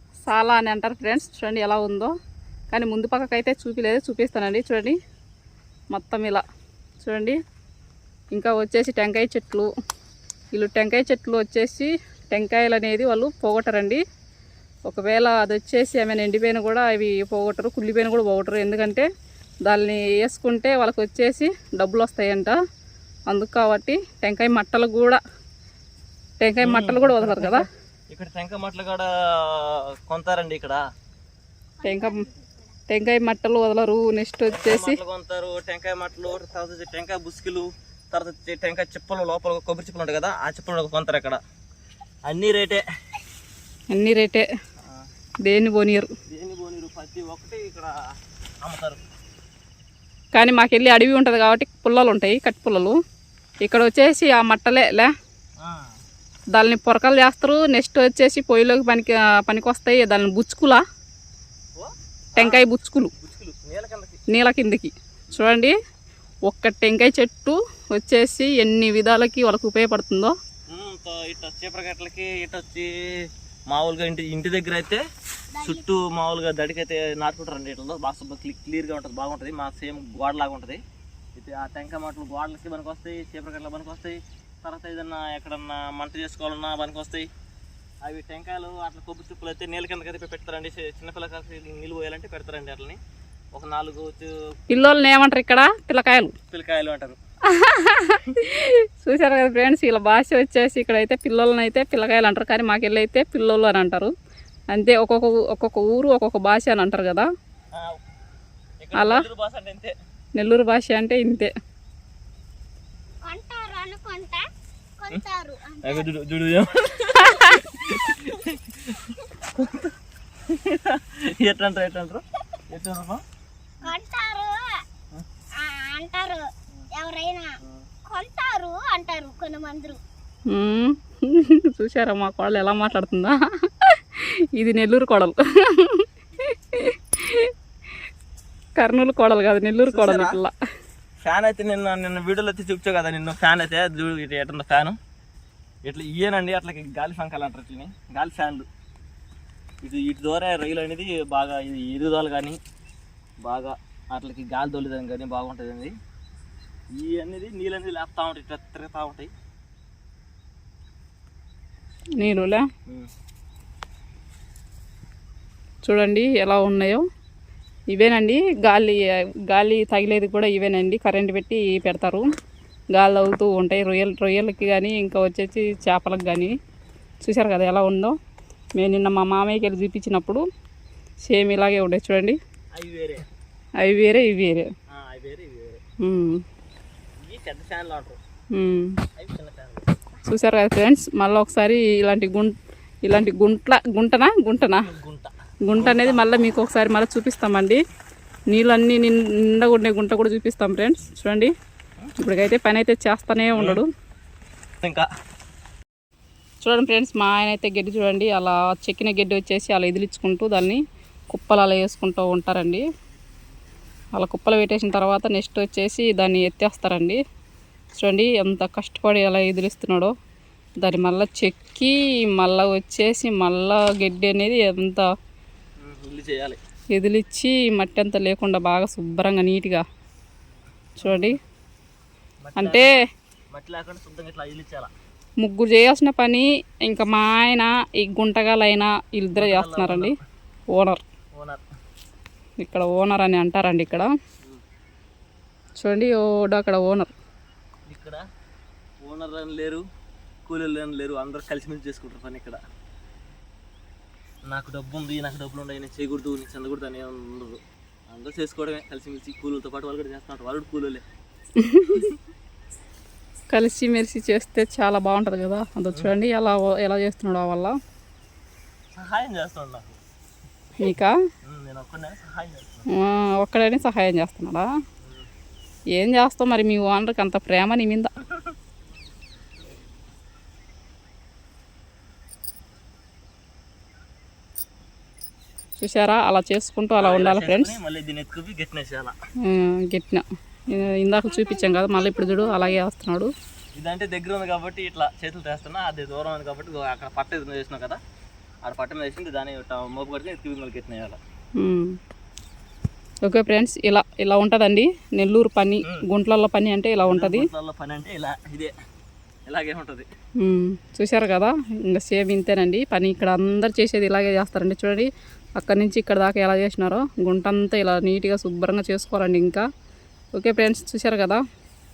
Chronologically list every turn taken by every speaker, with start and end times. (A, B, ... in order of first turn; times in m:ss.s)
0:00.3-0:02.1 A
0:02.7-0:05.0 A
0:05.9-0:06.4 A
0:07.0-0:07.4 A
0:08.3-0:09.7 A
0:10.5-0:14.0 A
0:14.9-0:19.1 A
0:19.7-0:22.6 A
0:23.3-0:25.2 A
0:26.4-0:27.7 A
0:26.6-0:30.8 B
0:31.8-0:32.8 C
0:31.8-0:32.2 A
0:32.9-0:35.0 A
0:34.5-0:41.4 B
0:42.3-0:42.8 B
0:43.9-0:44.4 A
0:45.4-0:46.1 A
0:46.3-0:48.0 B
0:48.6-0:49.0 B
0:50.3-0:53.0 A
0:53.6-0:55.1 A
0:55.6-0:55.9 B
0:56.6-1:00.8 A
1:01.8-1:02.7 B
1:02.4-1:03.1 A
1:03.2-1:04.2 B
1:04.3-1:05.8 A
1:06.5-1:10.3 A
1:10.7-1:15.0 B
1:15.5-1:15.9 C
1:15.6-1:20.8 B
1:21.4-1:27.3 B
1:28.0-1:33.0 B
1:33.5-1:34.3 B
1:34.7-1:36.4 A
1:36.5-1:37.2 B
1:37.5-1:44.1 A
1:44.7-1:47.3 A
1:48.8-1:49.9 B
1:49.0-1:49.2 A
1:50.4-1:51.5 A
1:53.2-1:54.4 C
1:55.0-1:56.1 C
1:55.8-1:59.9 B
1:57.2-1:57.5 A
1:57.3-1:58.3 C
2:00.5-2:03.2 B
2:03.8-2:04.8 C
2:05.5-2:07.6 C
2:08.1-2:10.0 C
2:10.5-2:17.5 A
2:18.8-2:20.5 A
2:19.9-2:20.4 B
2:21.2-2:25.0 B
2:25.8-2:28.7 B
2:29.8-2:32.6 B
2:33.4-2:35.9 B
2:37.0-2:39.3 B
2:42.2-2:42.7 A
2:42.2-2:43.1 B
2:45.9-2:47.0 A
2:47.9-2:52.3 A
2:52.9-2:56.5 A
2:57.2-2:58.2 A
2:58.8-3:00.4 A
3:01.3-3:02.4 A
3:02.7-3:03.2 B
3:03.8-3:04.7 A
3:04.9-3:05.8 B
3:06.0-3:06.4 A
3:07.2-3:08.2 B
3:08.6-3:09.0 A
3:09.2-3:09.9 B
3:10.2-3:12.5 A
3:13.0-3:14.9 A
3:14.6-3:16.4 B
3:15.7-3:17.8 A
3:18.5-3:21.5 A
3:22.2-3:23.9 A
3:23.6-3:23.8 B
3:24.8-3:25.1 B
3:26.6-3:32.8 A
3:34.2-3:37.2 A
3:38.0-3:40.1 A
3:40.8-3:45.1 A
3:45.8-3:46.6 B
3:46.9-3:49.8 A
3:51.0-3:51.4 A
3:51.0-3:51.4 B
3:52.4-3:52.9 B
3:52.6-3:53.0 A
3:53.5-3:54.9 B
3:55.4-4:00.2 A
3:59.4-4:00.2 B
4:00.7-4:01.0 A
4:01.3-4:01.6 B
4:02.6-4:04.1 A
4:05.8-4:07.1 A
4:07.9-4:08.2 B
4:09.0-4:09.8 B
4:10.5-4:12.6 B
4:14.5-4:17.6 B
4:18.1-4:21.0 B
4:21.6-4:22.1 A
4:23.5-4:27.8 A
4:29.0-4:30.0 B
4:30.8-4:31.1 A
4:31.4-4:32.9 B
4:32.9-4:34.7 A
4:35.0-4:35.3 B
4:36.0-4:38.1 A
4:38.2-4:38.5 B
4:45.8-4:47.8 A
4:47.0-4:49.2 B
4:49.5-4:53.3 A
4:51.3-4:52.8 C
4:53.8-4:58.0 B
4:58.6-5:01.2 B
5:01.6-5:02.0 A
5:03.2-5:07.5 A
5:07.1-5:08.7 B
5:09.5-5:10.1 B
5:10.4-5:19.6 A
5:20.4-5:21.4 A